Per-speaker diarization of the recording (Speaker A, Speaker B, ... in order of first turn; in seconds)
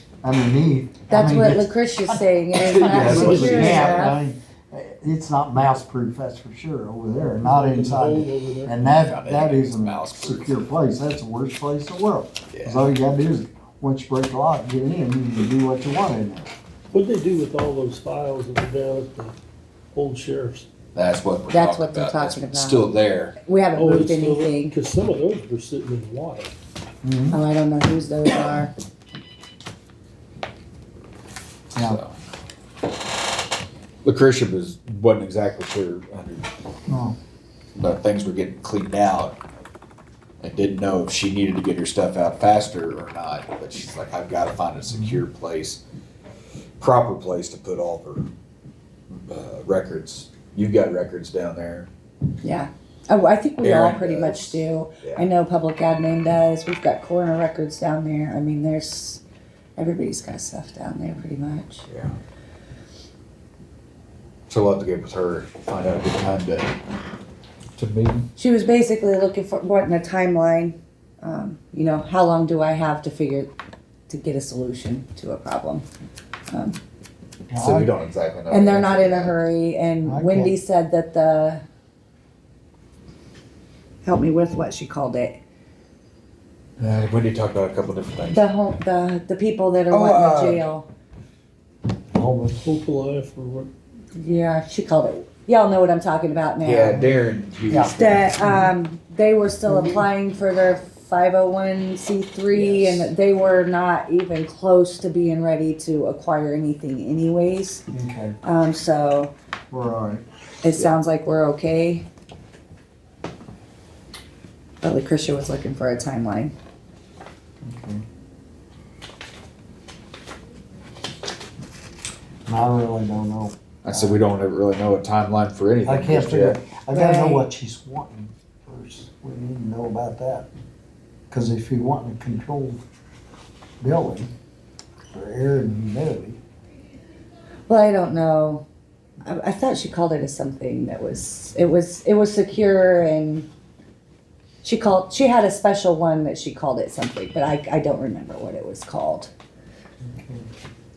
Speaker A: 0.2-2.2, 2.9-16.5, 27.0-27.4, 31.7-32.0, 36.9-37.2, 77.5-77.9, 80.0-80.6, 92.1-92.7, 96.9-97.2, 97.7-98.7, 99.7-100.1, 102.6-102.9, 107.9-108.4, 109.7-110.2, 117.6-118.0, 122.5-124.2, 125.8-130.5, 131.3-132.8, 133.8-134.3, 135.1-136.4, 150.0-150.5
Speaker B: 1.1-4.2, 21.5-24.8, 27.3-28.7, 52.4-59.2, 59.8-61.9, 68.4-73.5, 74.1-75.9, 76.5-76.8, 78.5-81.6, 84.0-85.4, 88.3-90.9, 94.1-97.0, 97.8-107.8, 108.4-109.3, 110.6-112.0, 114.8-116.5, 126.9-127.5, 137.7-138.6, 139.2-143.5, 144.6-149.3
Speaker C: 2.6-3.7, 8.9-10.7, 12.5-12.8, 20.9-23.4, 31.8-32.1, 34.0-36.5, 37.8-39.4, 40.4-45.8, 46.8-48.3, 49.1-51.9, 53.6-55.3, 61.9-62.1, 64.5-66.7, 67.8-68.3, 77.6-79.4, 86.8-88.5, 89.9-90.7, 96.6-98.4, 123.8-126.6
Speaker D: 3.1-4.1, 7.4-8.7, 16.9-19.4, 19.9-20.7, 23.8-26.5, 92.6-93.7